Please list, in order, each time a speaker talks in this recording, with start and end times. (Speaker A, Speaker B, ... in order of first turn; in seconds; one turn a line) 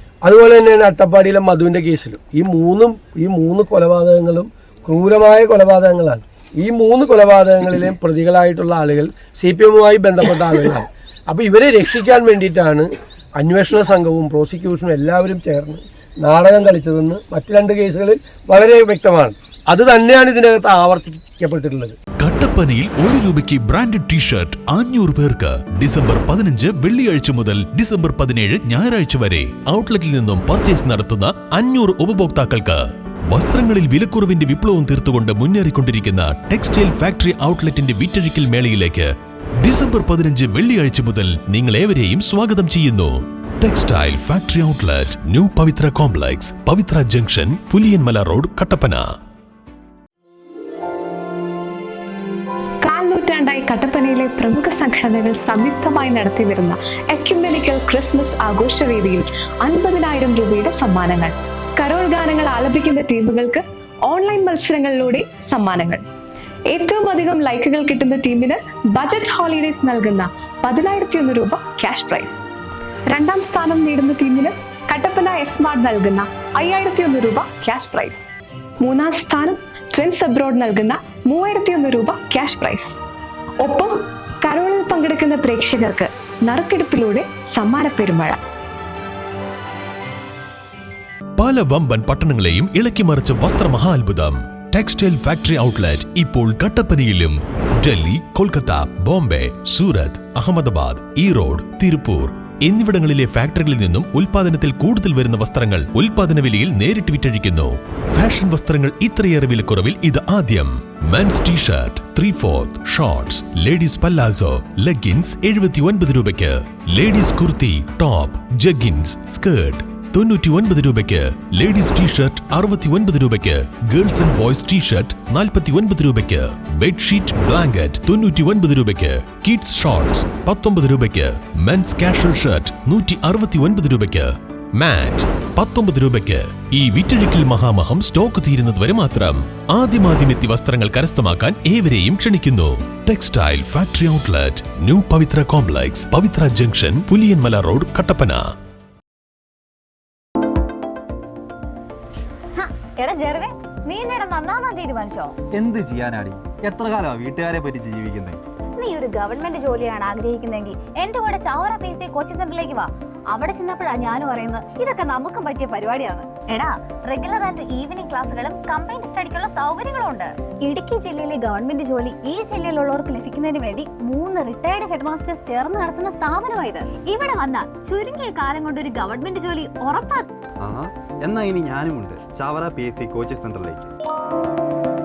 Speaker A: 0.2-22.0
Speaker B: 22.2-39.1
Speaker B: 39.6-49.1
Speaker C: 52.8-66.0
Speaker C: 66.7-72.4
Speaker C: 73.1-78.3
Speaker C: 78.8-83.0
Speaker C: 83.6-88.4
Speaker B: 91.4-148.4
Speaker D: 152.6-155.3
Speaker E: 155.5-158.4
Speaker D: 158.8-180.3
Speaker E: 180.6-183.9